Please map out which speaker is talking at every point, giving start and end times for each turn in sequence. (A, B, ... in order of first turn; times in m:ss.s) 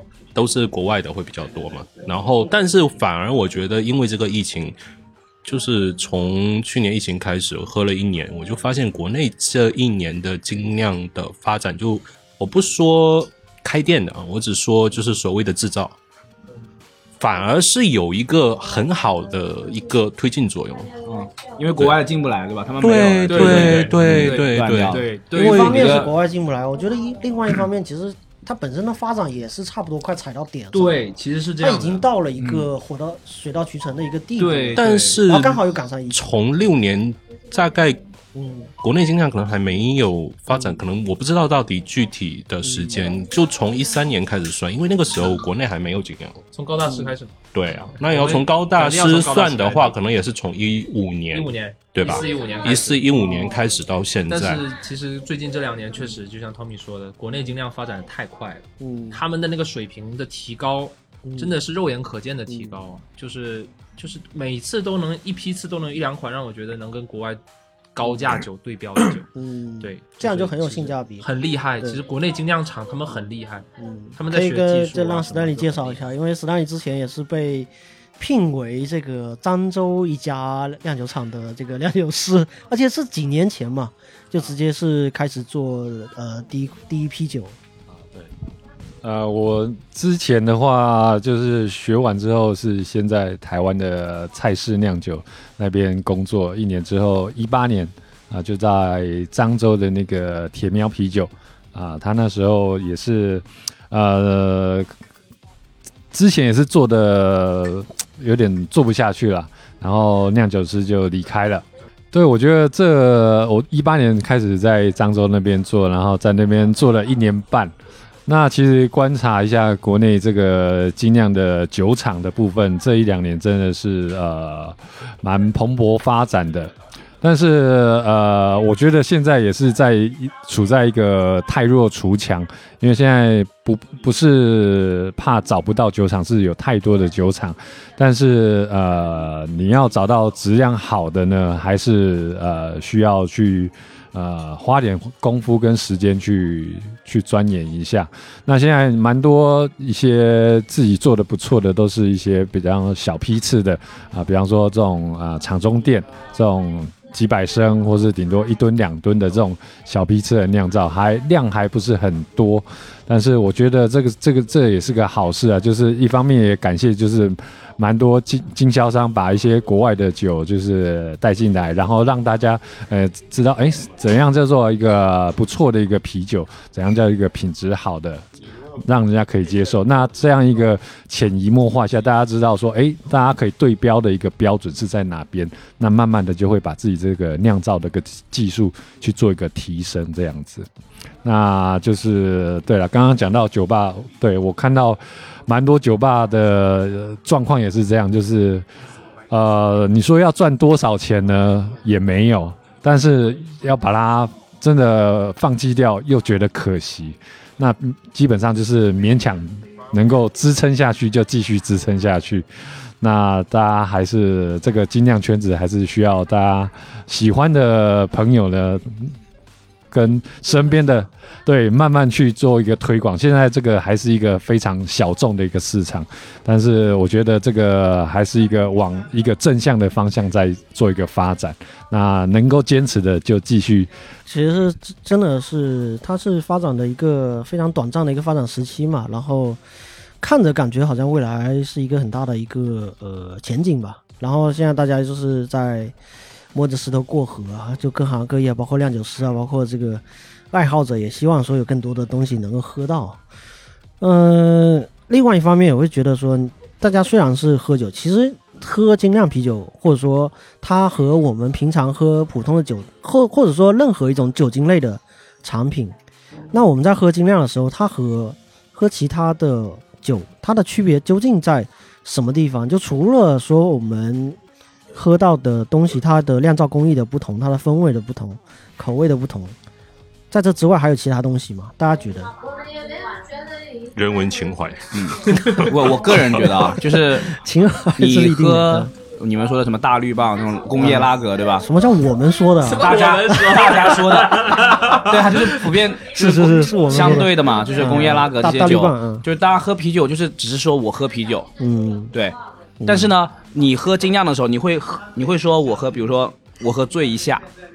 0:00.4-0:04.8 A
0:05.4-0:16.0 A
0:17.2-0:20.9 A
0:21.1-0:26.1 B
0:22.8-0:25.0 A
0:23.3-0:26.1 C
0:25.3-0:31.0 D
0:30.7-0:32.0 C
0:31.6-0:36.3 D
0:32.4-0:32.7 B
0:34.4-0:35.2 C
0:34.8-0:38.0 A
0:38.4-0:38.7 D
0:38.8-0:46.4 A
0:42.6-0:43.0 D
0:46.5-0:47.4 C
0:46.8-0:47.1 D
0:47.5-0:54.6 A
0:47.9-0:50.0 C
0:51.3-0:53.2 C
0:54.3-1:07.4 C
0:58.8-0:59.2 D
1:01.2-1:01.6 D
1:02.5-1:02.8 D
1:08.0-1:09.3 C
1:09.3-1:11.3 D
1:09.8-1:13.7 C
1:13.8-1:27.6 D
1:14.2-1:16.1 C
1:29.0-1:44.9 E
1:46.1-1:57.7 E
1:58.3-2:58.3 E
2:58.8-3:10.7 E
3:11.2-3:18.7 E
3:19.3-3:32.5 E
3:33.0-3:39.2 E
3:39.9-3:53.9 E
3:54.3-3:59.6 D
4:00.2-4:05.9 D
4:06.5-4:13.2 D
4:14.0-4:26.0 D
4:26.5-4:34.4 D
4:34.9-4:39.6 D
4:40.3-4:42.3 D
4:44.0-4:45.7 A
4:44.9-4:47.3 B
4:47.3-4:48.9 D
4:48.0-4:51.7 B
4:50.8-4:53.5 D
4:52.6-4:55.8 C
4:52.8-5:01.5 B
4:56.1-4:59.3 D
5:01.6-5:02.1 D
5:02.8-5:03.2 D
5:02.9-5:07.4 B